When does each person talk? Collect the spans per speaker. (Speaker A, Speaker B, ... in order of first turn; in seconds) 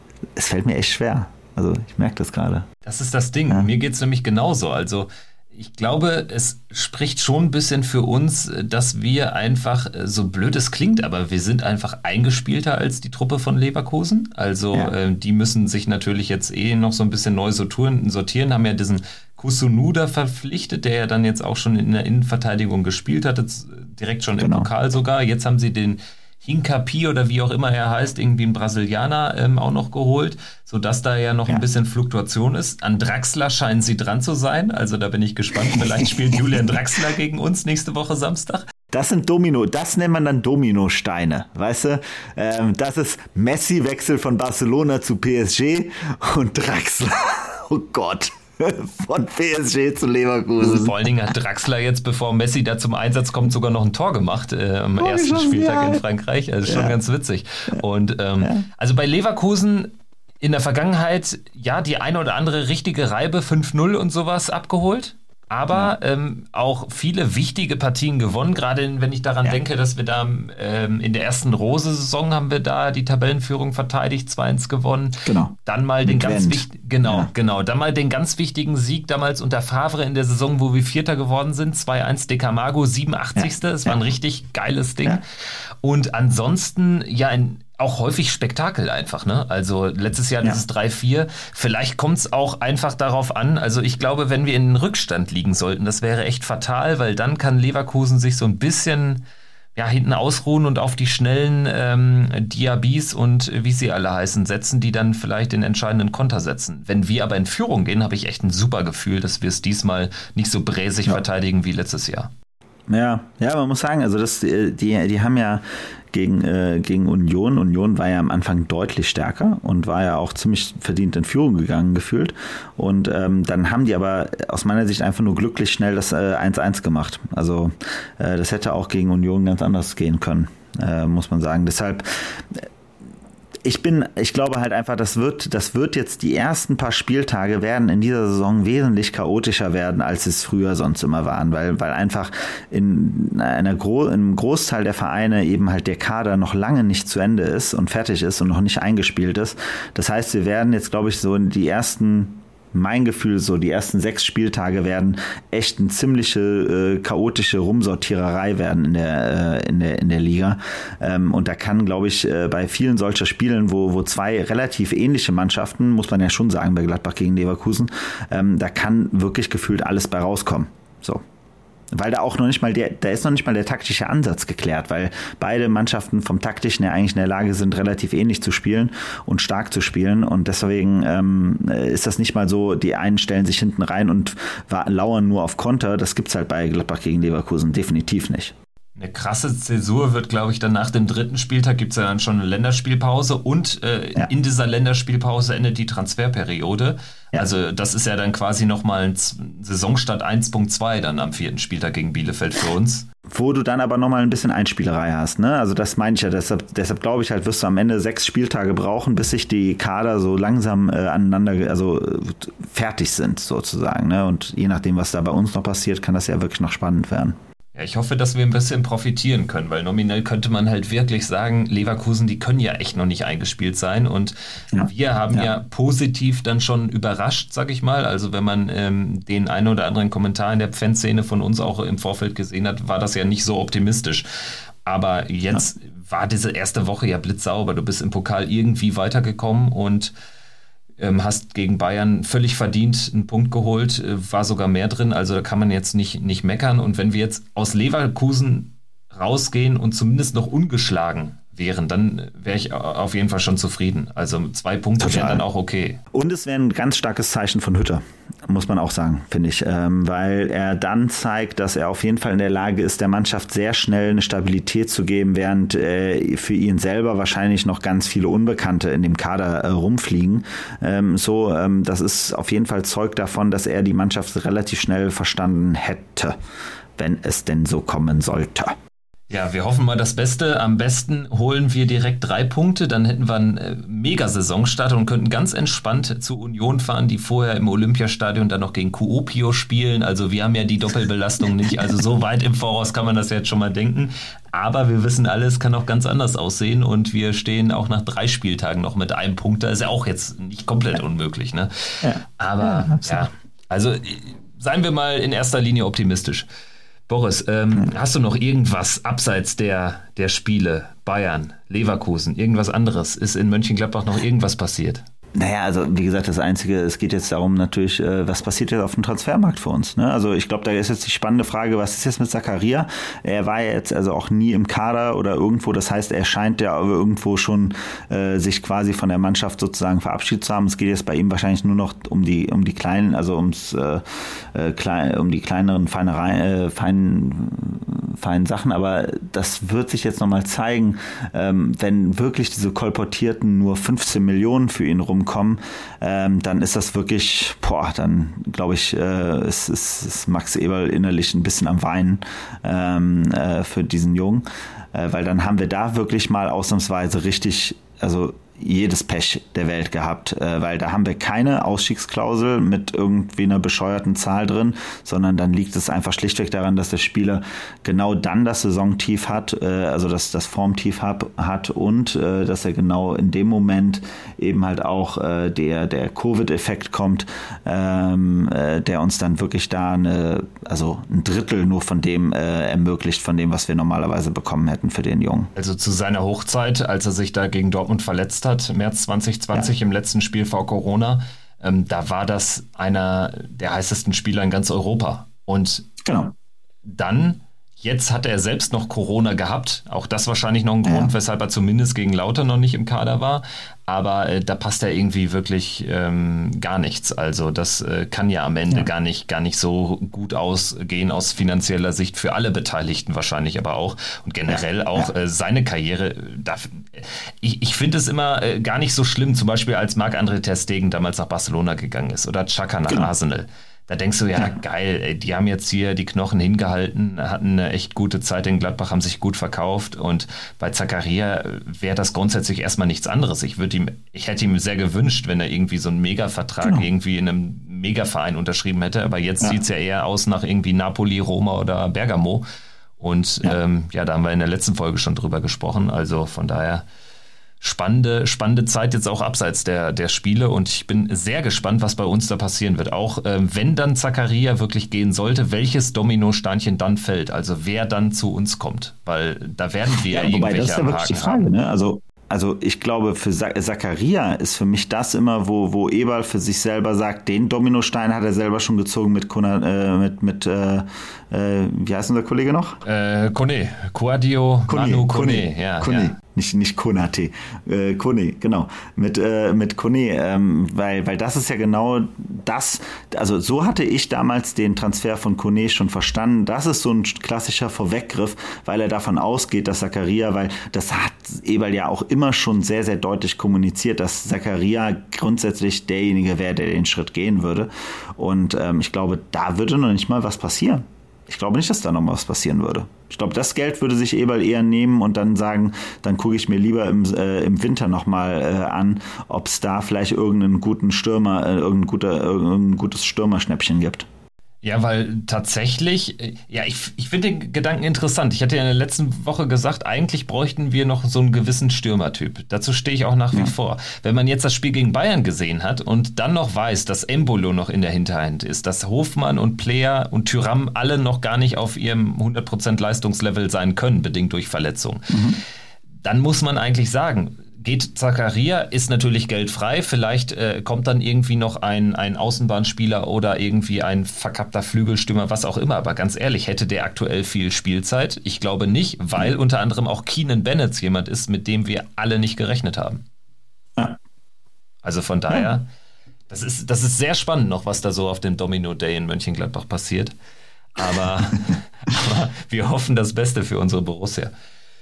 Speaker A: 0.4-2.7, 24.4-24.7, 36.0-36.6, 38.9-50.9, 55.0-56.0, 56.6-57.0, 75.2-77.3, 83.4-83.9, 112.9-132.7, 133.6-171.2, 171.9-188.6, 203.3-217.4, 224.7-225.5, 255.0-255.4, 256.1-276.4, 277.0-278.8, 302.0-303.2, 315.4-334.0, 334.5-385.5, 396.0-396.3, 400.9-401.1, 414.5-415.1, 460.1-472.8, 474.7-514.1, 535.1-535.4
Speaker B: 2.9-38.7, 50.6-85.2, 85.8-99.2, 99.8-112.3, 188.9-203.1, 217.7-234.3, 234.8-240.1, 241.0-256.0, 279.3-306.5, 307.1-315.0, 385.6-395.9, 396.9-442.4, 443.0-446.9, 447.6-461.5, 472.9-476.1, 514.6-535.2, 536.0-553.0, 554.8-555.7, 556.3-560.1, 560.7-564.3